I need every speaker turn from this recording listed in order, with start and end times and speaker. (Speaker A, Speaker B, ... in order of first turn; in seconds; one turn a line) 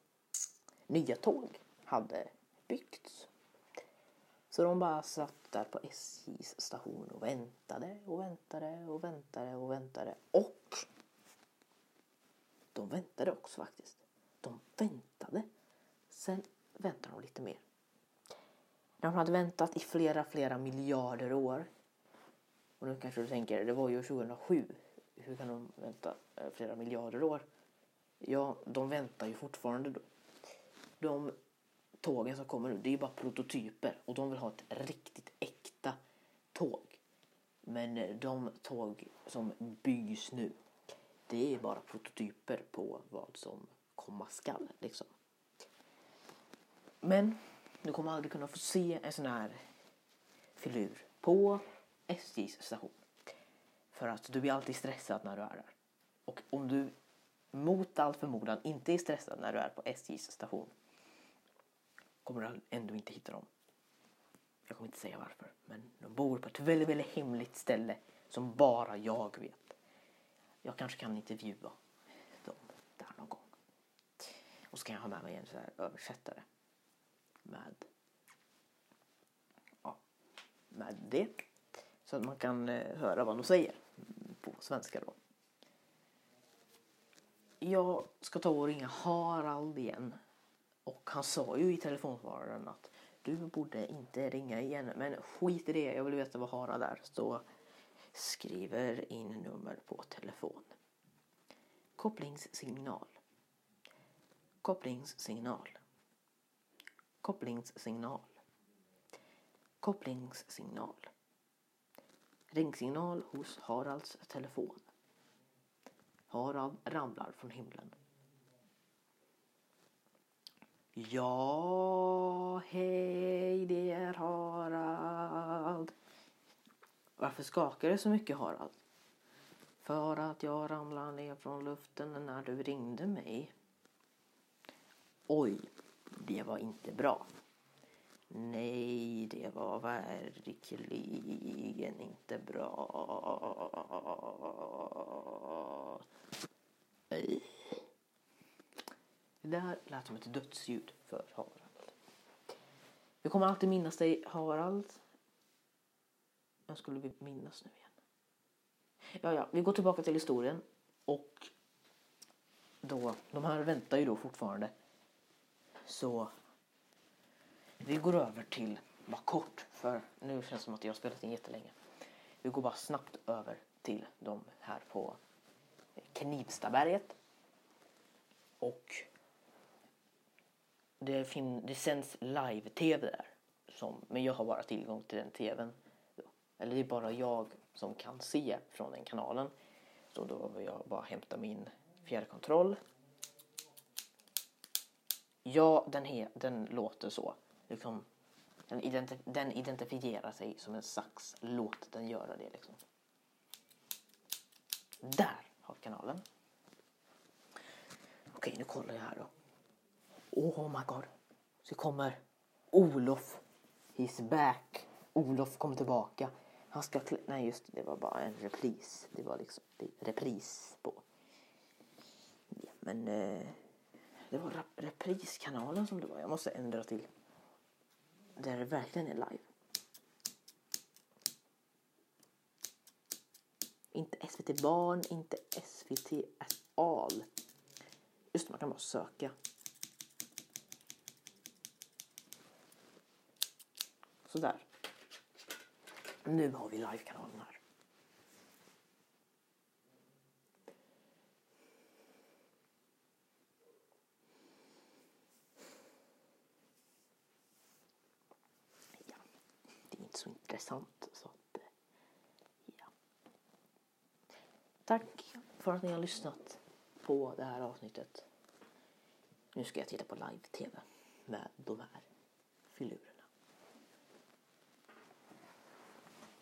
Speaker A: 0.9-3.3
Speaker A: 4.5-10.9
Speaker A: 12.7-15.5
Speaker A: 16.1-17.6
Speaker A: 19.0-21.7
Speaker A: 22.8-27.5
Speaker A: 28.2-30.1
Speaker A: 31.0-31.4
Speaker A: 32.0-36.0
Speaker A: 36.5-37.0
Speaker A: 37.6-40.6
Speaker A: 41.3-45.1
Speaker A: 47.0-49.6
Speaker A: 50.6-53.0
Speaker A: 53.9-55.8
Speaker A: 56.3-57.0
Speaker A: 57.5-60.7
Speaker A: 62.2-63.5
Speaker A: 64.7-69.8
Speaker A: 70.6-71.8
Speaker A: 72.4-73.5
Speaker A: 74.2-76.5
Speaker A: 77.5-77.9
Speaker A: 80.7-81.3
Speaker A: 82.0-85.2
Speaker A: 87.6-90.2
Speaker A: 90.9-97.4
Speaker A: 98.1-100.7
Speaker A: 102.0-103.2
Speaker A: 104.6-105.8
Speaker A: 107.2-108.3
Speaker A: 109.8-111.1
Speaker A: 112.5-114.9
Speaker A: 116.3-118.0
Speaker A: 121.0-125.9
Speaker A: 127.2-128.8
Speaker A: 129.8-133.5
Speaker A: 135.3-137.3
Speaker A: 138.3-146.0
Speaker A: 147.1-147.8
Speaker A: 149.4-152.0
Speaker A: 153.2-155.0
Speaker A: 156.7-157.9
Speaker A: 159.2-161.5
Speaker A: 162.8-164.7
Speaker A: 165.8-166.3
Speaker A: 167.8-171.8
Speaker A: 172.4-175.2
Speaker A: 176.0-177.2
Speaker A: 178.6-179.1
Speaker A: 181.0-189.5
Speaker A: 190.1-192.8
Speaker A: 195.4-198.1
Speaker A: 198.7-202.8
Speaker A: 205.0-206.2
Speaker A: 208.3-209.3
Speaker A: 210.3-211.1
Speaker A: 211.6-212.2
Speaker A: 212.7-213.4
Speaker A: 214.0-221.1
Speaker A: 222.5-223.6
Speaker A: 224.3-227.1
Speaker A: 228.4-229.5
Speaker A: 233.9-237.3
Speaker A: 238.3-239.3
Speaker A: 244.3-244.7
Speaker A: 246.2-247.6
Speaker A: 259.9-261.7
Speaker A: 264.9-268.3
Speaker A: 269.5-272.1
Speaker A: 272.7-273.3